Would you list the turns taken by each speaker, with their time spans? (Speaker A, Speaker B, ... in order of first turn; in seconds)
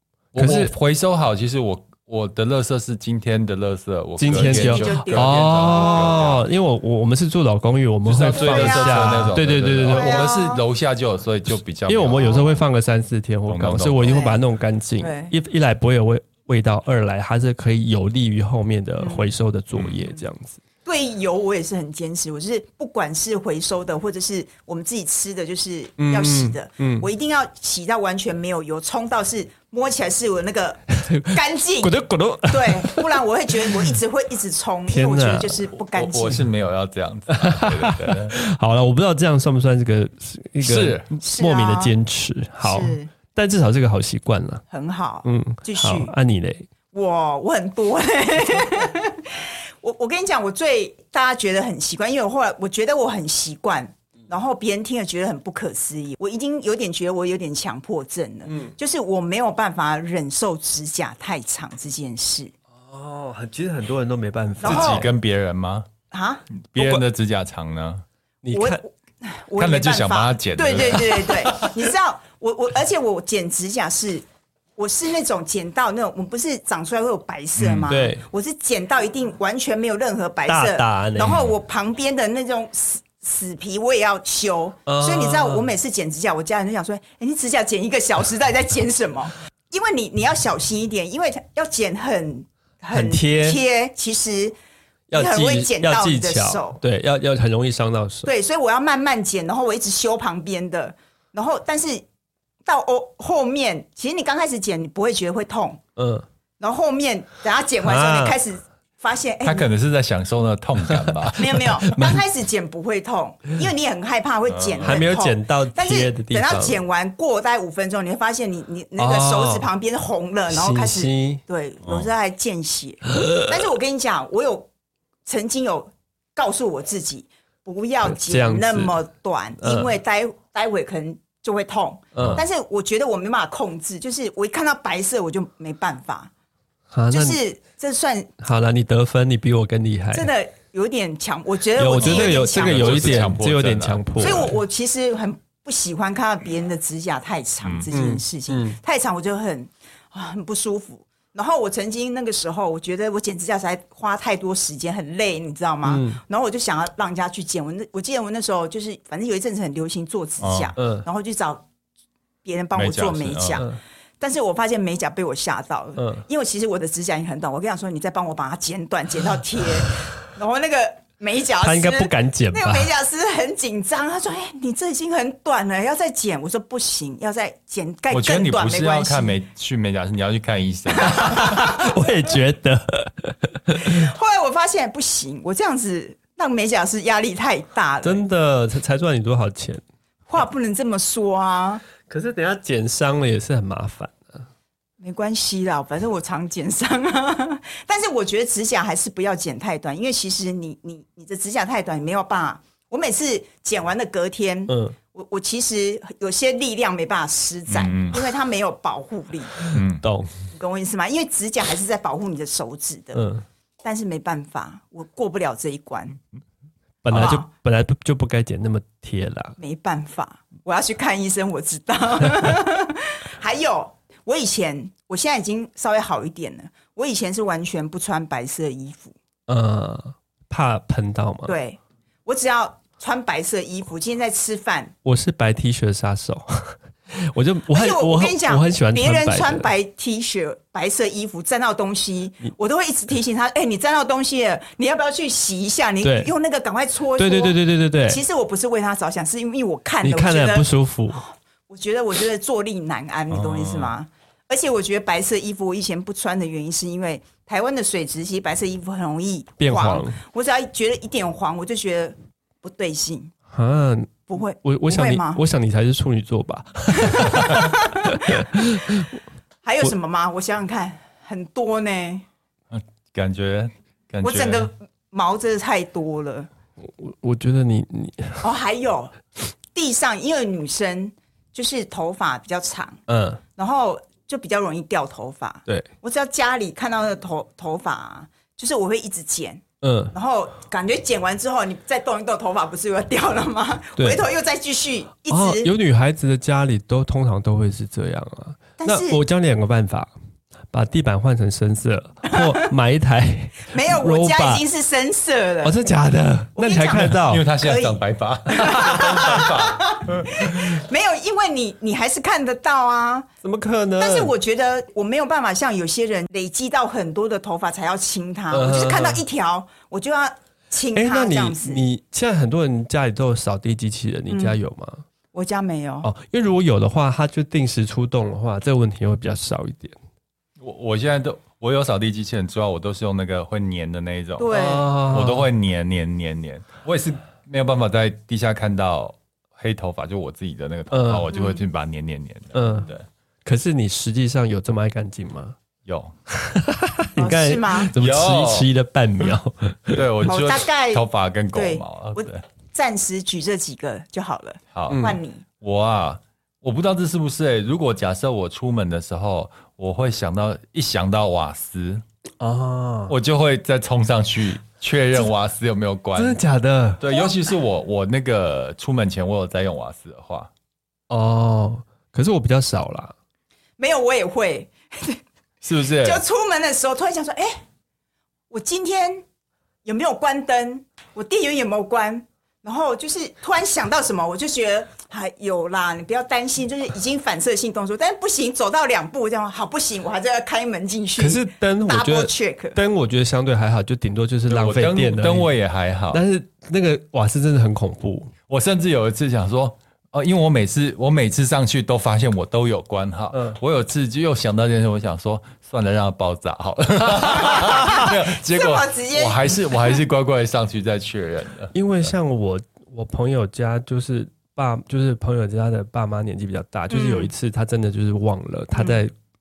Speaker A: 0.3-6.4, 8.0-12.6, 13.5-14.2, 35.9-38.4, 40.6-41.0, 64.6-65.9, 66.5-68.0, 69.6-71.7, 77.5-77.9, 109.4-111.7, 114.5-115.1, 121.8-122.1, 142.0-144.5, 160.4-160.7, 162.7-163.7, 178.1-181.6, 207.7-208.2, 209.7-210.0, 253.3-253.9, 272.7-274.7, 307.2-310.6, 330.6-334.5, 335.1-343.0, 345.9-346.1, 347.9-348.7, 349.9-352.4, 354.7-355.0, 355.6-362.0, 363.1-366.4, 367.0-370.5, 375.6-376.2, 394.5-396.2, 398.5-412.1
Speaker B: 0.4-0.7, 4.2-10.3, 11.9-20.6, 26.0-27.1, 30.9-34.0, 34.9-35.7, 37.3-44.6, 45.2-46.7, 62.8-65.1, 68.4-68.8, 77.9-78.2, 80.5-81.4, 84.9-85.7, 92.9-93.6, 95.1-98.3, 106.0-106.2, 107.8-108.4, 110.9-112.2, 114.8-116.8, 119.0-119.7, 120.5-121.4, 123.1-123.5, 128.0-128.9, 129.6-129.9, 132.2-132.4, 136.9-137.4, 138.4-140.3, 141.8-144.5, 147.9-148.8, 155.8-156.2, 160.8-161.1, 166.0-166.2, 171.6-172.9, 181.2-184.1, 188.0-189.8, 192.1-194.4, 204.7-204.9, 210.0-210.3, 213.1-213.4, 217.0-219.6, 229.5-231.5, 235.0-239.7, 246.0-246.3, 247.2-248.2, 250.0-251.2, 259.6-260.2, 263.5-269.2, 276.8-278.4, 283.1-283.4, 289.8-290.1, 294.0-294.2, 295.3-300.1, 300.7-304.6, 305.6-307.4, 313.4-314.3, 318.5-319.2, 320.9-325.0, 326.0-330.0, 334.5-335.5, 340.9-341.3, 342.5-342.9, 343.4-345.6, 346.3-350.0, 354.9-355.2, 362.4-363.1, 366.1-367.0, 371.1-373.1, 391.2-395.5, 396.1-398.3, 403.3-403.6, 411.7-419.1
Speaker C: 4.3-6.2, 8.2-10.6, 12.1-12.4, 14.0-14.4, 15.0-15.3, 19.0-19.2, 20.8-36.4, 41.2-42.0, 42.6-43.1, 44.7-46.1, 46.9-62.5, 64.6-65.1, 66.1-66.4, 68.5-74.2, 74.8-94.5, 95.1-96.8, 98.2-102.0, 102.6-105.8, 106.6-109.7, 111.4-124.7, 125.2-136.3, 137.1-138.3, 140.1-143.3, 144.2-161.6, 162.4-179.4, 181.0-181.9, 183.8-188.2, 190.3-191.8, 195.0-209.7, 210.5-213.2, 213.8-216.2, 217.1-217.5, 219.6-229.1, 231.4-234.9, 237.7-263.3, 264.3-265.4, 267.0-268.8, 269.6-272.2, 274.2-276.5, 278.4-279.1, 279.7-283.0, 283.6-295.7, 298.8-299.2, 302.3-302.7, 303.7-305.8, 306.6-313.3, 314.0-321.8, 324.3-324.6, 325.3-326.1, 334.4-334.9, 341.3-341.6, 347.1-347.9, 350.2-355.4, 373.8-375.2, 376.0-377.6, 378.5-379.2, 379.8-392.8, 407.6-410.0, 416.9-417.3, 418.7-419.0